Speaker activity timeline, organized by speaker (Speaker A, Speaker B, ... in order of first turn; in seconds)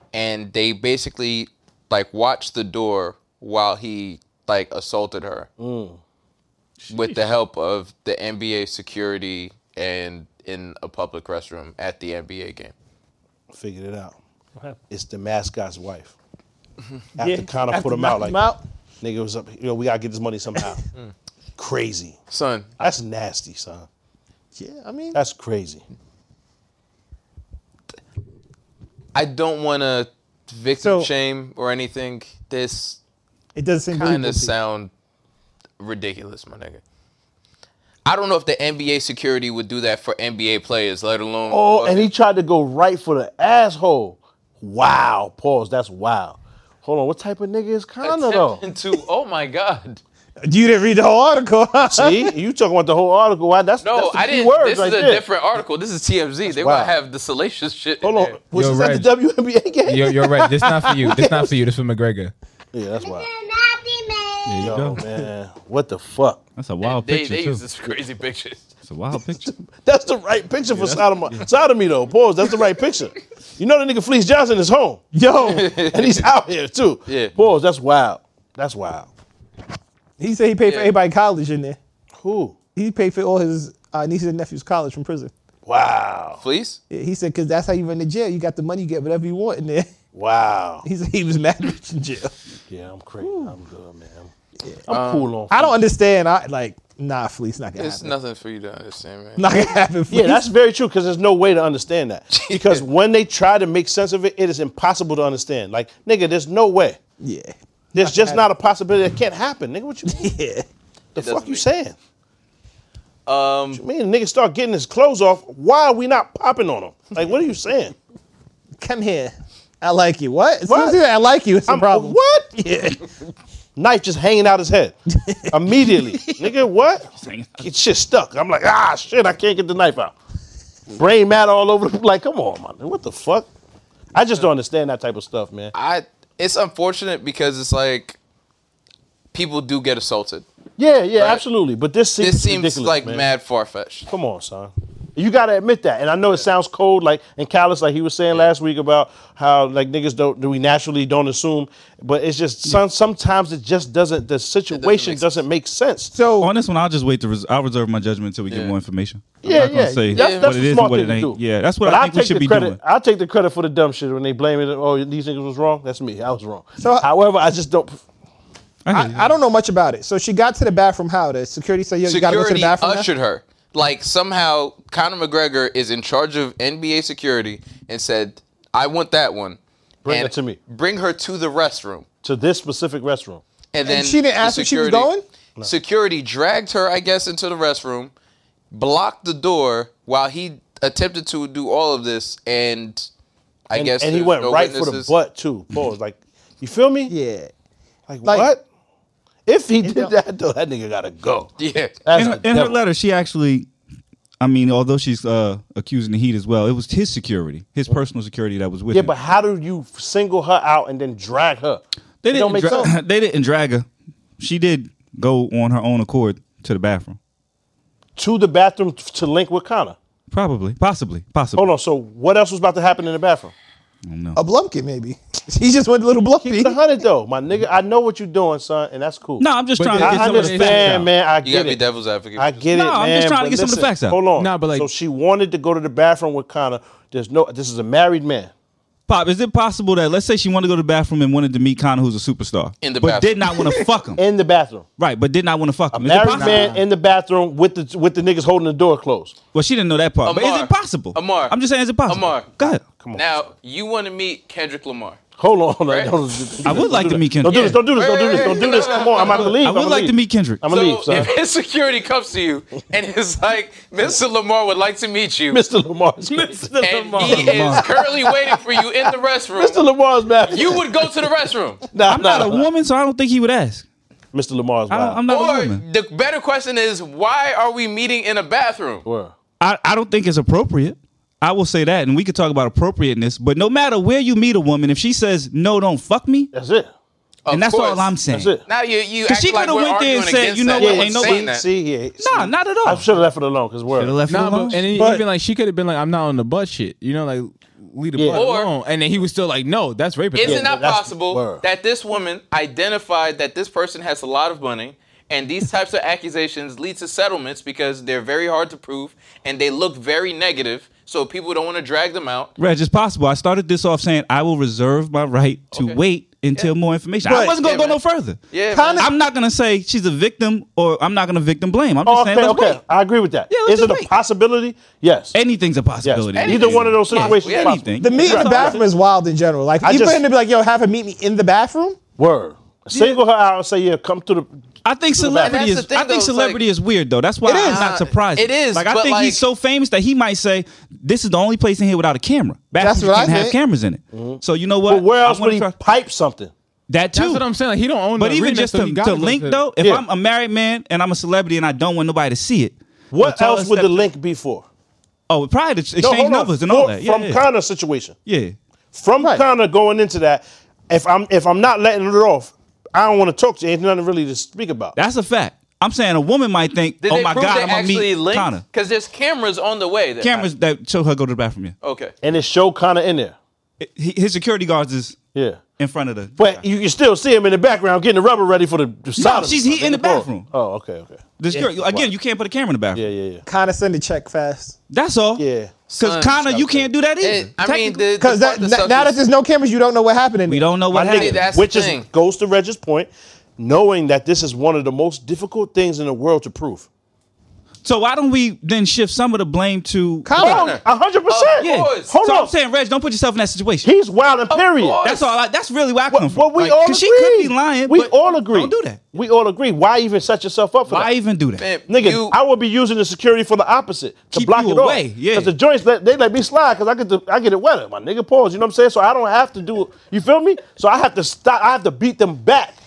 Speaker A: 0.1-5.5, 6.9-12.7, 22.3-22.7, 29.1-33.0, 33.9-34.9, 35.8-36.8, 38.0-42.1, 48.0-50.0, 53.8-58.4, 66.8-68.6, 75.4-76.2, 77.1-77.3, 80.6-81.0, 86.4-86.8, 94.9-95.4, 97.8-99.5, 102.3-102.8, 111.1-111.7, 113.2-113.8, 135.7-138.2, 139.3-140.4, 141.2-141.4, 142.2-144.1, 154.7-155.3, 160.1-160.6, 172.0-182.1, 183.7-185.1, 185.6-188.1, 188.7-193.1, 193.7-195.1, 201.6-201.9, 231.4-232.6, 242.8-243.8, 250.2-251.6, 252.1-252.6, 253.1-255.2, 255.9-256.8, 257.4-259.6, 260.7-265.6, 266.8-269.8, 270.5-271.9, 275.3-279.0, 287.4-291.6, 298.3-298.7, 300.3-312.5, 315.7-316.0, 317.6-319.1, 326.3-328.5, 335.4-336.6, 337.6-339.4, 367.0-370.5, 371.8-372.1, 385.9-389.2, 391.0-392.1, 400.4-402.1, 404.5-405.3, 411.6-412.3
Speaker B: 5.6-6.0, 13.5-14.2, 14.9-16.1, 17.2-18.5, 19.0-20.8, 21.6-22.2, 22.8-23.9, 25.1-25.8, 41.5-48.6, 51.9-55.2, 56.5-56.9, 58.0-60.5, 61.0-61.5, 62.7-63.3, 64.6-66.4, 69.4-75.0, 75.8-79.1, 82.2-82.6, 85.7-86.4, 90.1-90.9, 92.7-94.3, 94.9-95.8, 100.1-107.0, 107.9-110.3, 111.1-112.0, 113.7-117.9, 120.7-121.0, 121.7-122.5, 123.8-125.0, 125.5-130.1, 130.9-133.5, 134.1-135.7, 140.8-143.3, 144.1-156.1, 159.4-168.0, 180.1-180.6, 182.2-183.4, 193.7-197.1, 198.1-198.6, 199.5-201.5, 202.0-202.8, 208.9-212.9, 218.2-220.0, 221.6-223.5, 226.4-231.8, 232.4-238.5, 244.2-244.9, 245.9-249.4, 252.6-253.3, 255.4-261.3, 265.5-268.6, 269.6-271.1, 271.9-272.7, 274.3-275.2, 279.1-279.3, 286.5-286.9, 288.3-288.6, 290.8-294.1, 298.1-298.4, 300.4-301.6, 322.1-325.3, 326.0-328.8, 329.8-330.2, 332.2-334.5, 335.1-335.6, 344.1-346.5, 353.1-354.6, 356.0-358.1, 358.9-364.9, 372.2-373.4, 375.3-375.6, 376.4-382.1, 382.9-383.4, 385.4-385.8, 390.9-396.9, 400.4-402.5, 403.8-405.0, 406.1-411.1, 411.9-422.8
Speaker C: 17.2-18.6, 24.6-25.2, 30.8-31.1, 33.5-34.5, 50.5-52.3, 60.4-61.1, 75.1-75.7, 80.2-81.8, 82.7-85.3, 86.9-89.9, 90.8-92.3, 93.2-93.5, 95.5-98.1, 99.4-100.5, 107.2-108.4, 110.1-110.6, 118.8-123.0, 125.1-126.6, 156.1-156.5, 166.8-167.1, 168.9-173.1, 183.8-185.2, 197.1-197.5, 198.2-198.5, 199.8-200.1, 212.6-212.9, 224.3-226.8, 294.9-295.2, 317.2-317.6, 318.7-319.1, 327.9-332.0, 337.4-337.9, 342.8-343.6, 383.4-384.8, 388.1-390.8, 400.2-400.7
Speaker D: 58.5-59.1, 59.8-62.3, 229.8-231.1, 234.4-234.9, 246.3-246.8, 294.3-300.7, 347.1-349.6
Speaker E: 64.4-65.0, 66.6-67.6, 68.9-69.5, 127.2-127.7, 156.4-162.8, 168.9-169.3, 202.1-203.7, 204.4-209.1, 212.2-213.9, 214.4-217.2, 220.3-221.7, 224.1-224.4, 229.4-231.1, 232.7-234.2, 239.1-244.2, 245.0-246.7, 249.5-252.8, 256.6-257.9, 259.3-260.6, 267.2-267.9, 272.1-273.8, 274.9-275.8, 279.6-286.5, 287.5-288.5, 289.3-291.4, 292.2-293.1, 293.9-294.9, 312.6-318.4, 319.0-322.8, 323.5-324.1, 325.3-328.8, 334.8-345.7, 346.9-347.4, 348.2-354.1, 355.3-357.4, 358.3-358.6, 364.9-368.6, 370.2-371.7, 373.8-375.2, 375.8-376.6, 379.1-380.5, 381.4-383.1, 384.9-385.4, 385.9-388.0, 390.5-391.4, 397.8-400.6, 401.6-403.9, 405.0-409.0, 410.9-411.6, 414.3-415.5